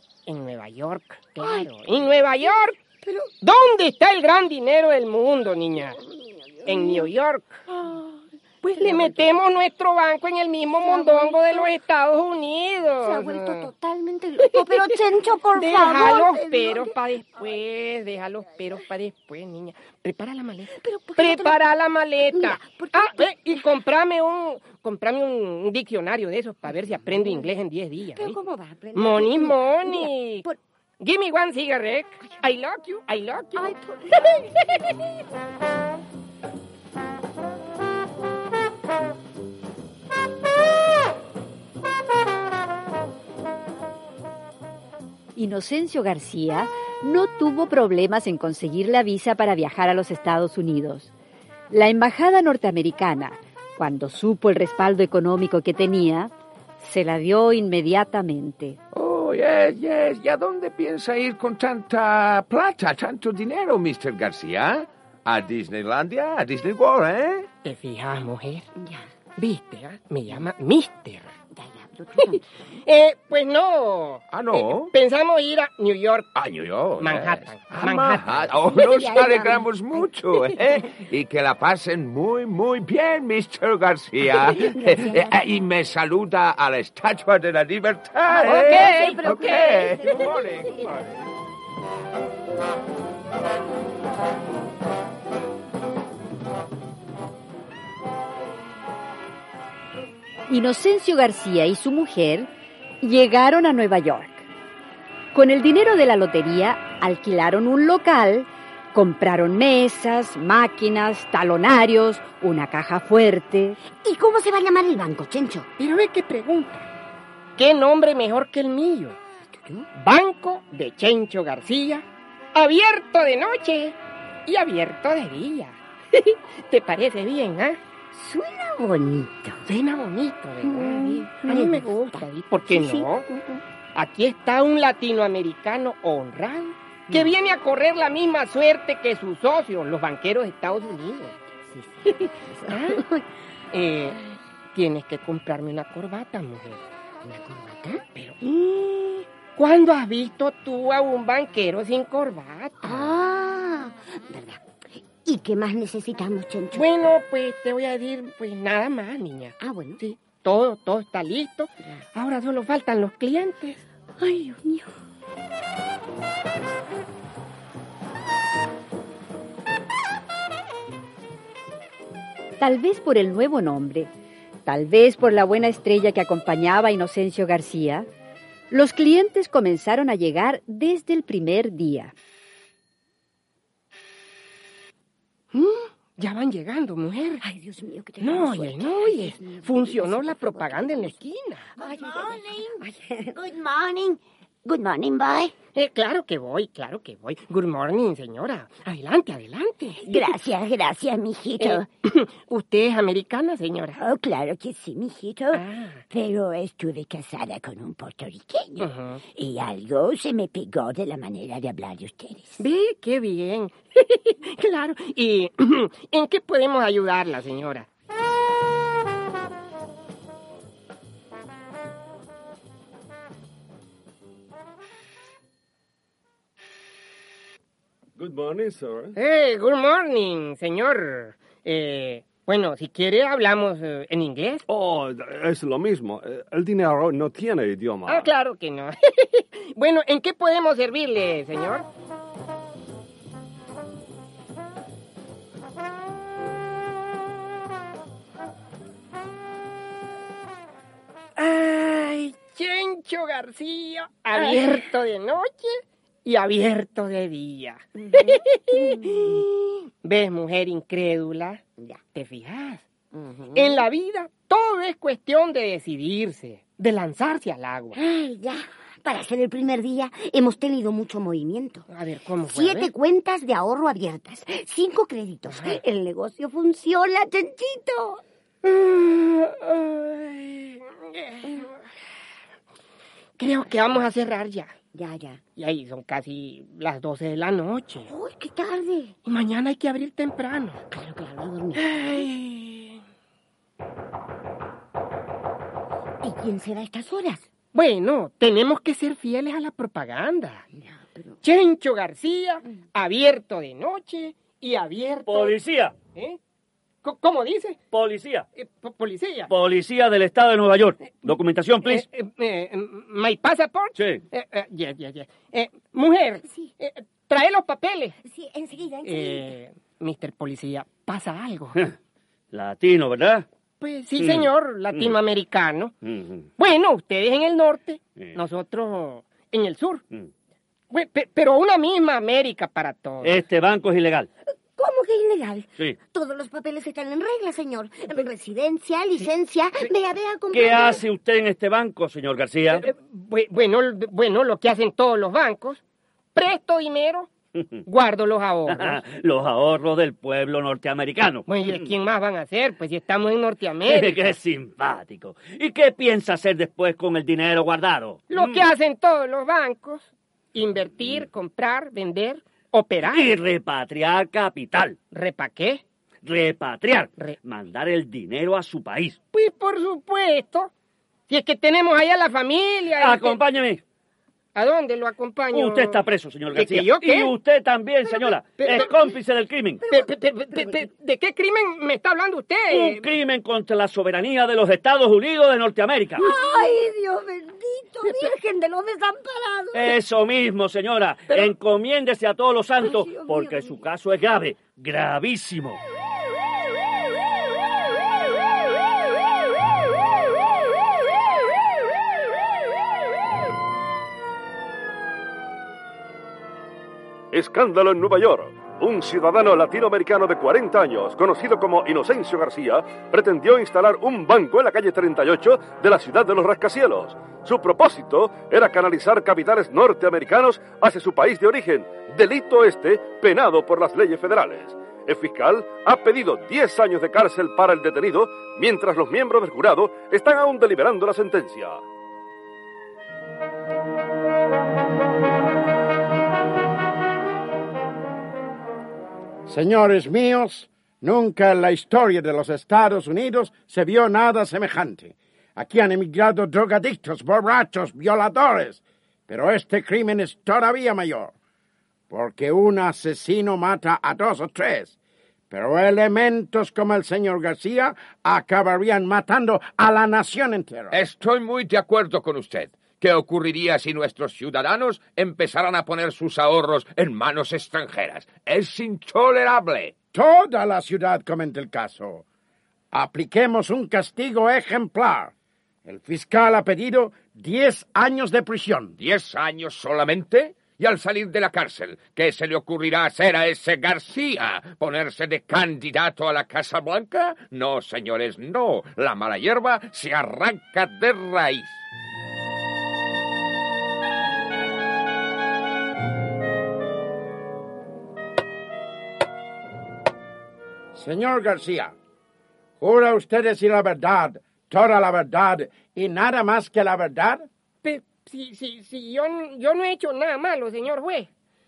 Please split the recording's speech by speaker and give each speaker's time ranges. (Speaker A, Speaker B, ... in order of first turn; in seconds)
Speaker A: 0.2-2.8, 3.4-6.0, 6.7-7.6, 8.6-13.7, 14.4-15.0, 15.5-28.4, 28.9-30.5, 31.0-33.7, 67.6-68.7, 69.4-71.3, 72.2-76.3, 77.0-78.5, 88.3-90.1, 115.8-116.8, 117.6-119.2, 120.0-127.8, 129.6-133.2, 133.9-141.3, 142.7-143.0, 143.7-144.2, 144.7-146.8, 148.1-153.1, 156.7-163.8, 185.5-187.4, 188.2-192.3, 195.7-200.3, 201.6-204.0, 205.5-206.0, 208.8-209.2, 212.6-217.9, 229.2-234.6, 238.1-241.9, 251.4-261.6, 262.1-262.9, 263.5-268.0, 271.9-272.9, 275.5-275.8, 278.6-281.7, 283.4-284.7, 285.6-288.1, 289.2-290.8, 291.8-293.0, 297.7-300.6, 301.4-305.6, 307.0-307.8, 308.6-309.5, 311.2-318.1, 319.0-321.8, 323.8-325.9, 326.6-330.0, 330.9-333.4, 342.7-345.8, 346.3-347.3, 347.9-349.0, 351.5-354.4, 358.3-363.3, 365.1-365.8, 369.3-370.7, 371.3-373.4, 374.5-377.3, 378.6-378.9, 379.9-383.1, 507.8-511.3
Speaker B: 1.4-1.7, 3.0-3.3, 6.0-7.1, 7.7-9.3, 10.8-11.7, 13.0-17.0, 20.7-21.6, 22.3-23.6, 26.7-27.5, 28.1-30.6, 33.5-34.8, 68.8-69.1, 71.5-72.4, 78.6-80.6, 84.4-85.3, 88.3-90.4, 114.0-115.7, 119.5-119.9, 128.1-129.6, 130.6-133.6, 141.7-143.2, 147.2-148.1, 152.8-156.9, 159.6-160.0, 164.2-164.9, 187.4-191.2, 191.8-195.5, 200.0-201.9, 204.0-212.6, 254.3-254.8, 258.0-259.5, 263.1-263.9, 267.9-271.9, 272.4-278.2, 284.9-285.4, 288.0-289.1, 290.9-292.3, 296.2-297.5, 300.8-301.4, 318.2-319.5, 334.8-341.0, 378.3-378.9, 379.8-380.9, 386.2-389.9, 392.8-393.8
Speaker C: 45.4-51.1, 51.7-58.8, 100.5-102.5, 103.0-104.5, 105.3-113.8, 172.6-174.1, 174.7-178.1, 178.7-182.1
Speaker D: 58.9-67.5, 74.3-74.9, 76.3-91.0, 460.9-470.0, 479.0-491.8
Speaker E: 228.2-229.2, 234.7-238.3, 407.3-431.8
Speaker F: 305.3-305.9, 307.9-308.4, 309.5-312.0, 314.0-314.2, 322.5-323.4, 324.2-325.1, 326.0-326.5, 333.2-334.3, 340.5-342.9, 348.7-351.8, 353.9-358.6, 363.0-365.0, 366.2-369.2, 373.0-373.8, 375.5-379.8, 382.7-386.2, 389.7-395.8
Speaker G: 439.5-451.3, 452.1-454.9, 455.5-461.0, 470.1-472.2, 472.9-475.3, 475.8-478.9, 500.9-501.9, 502.8-507.4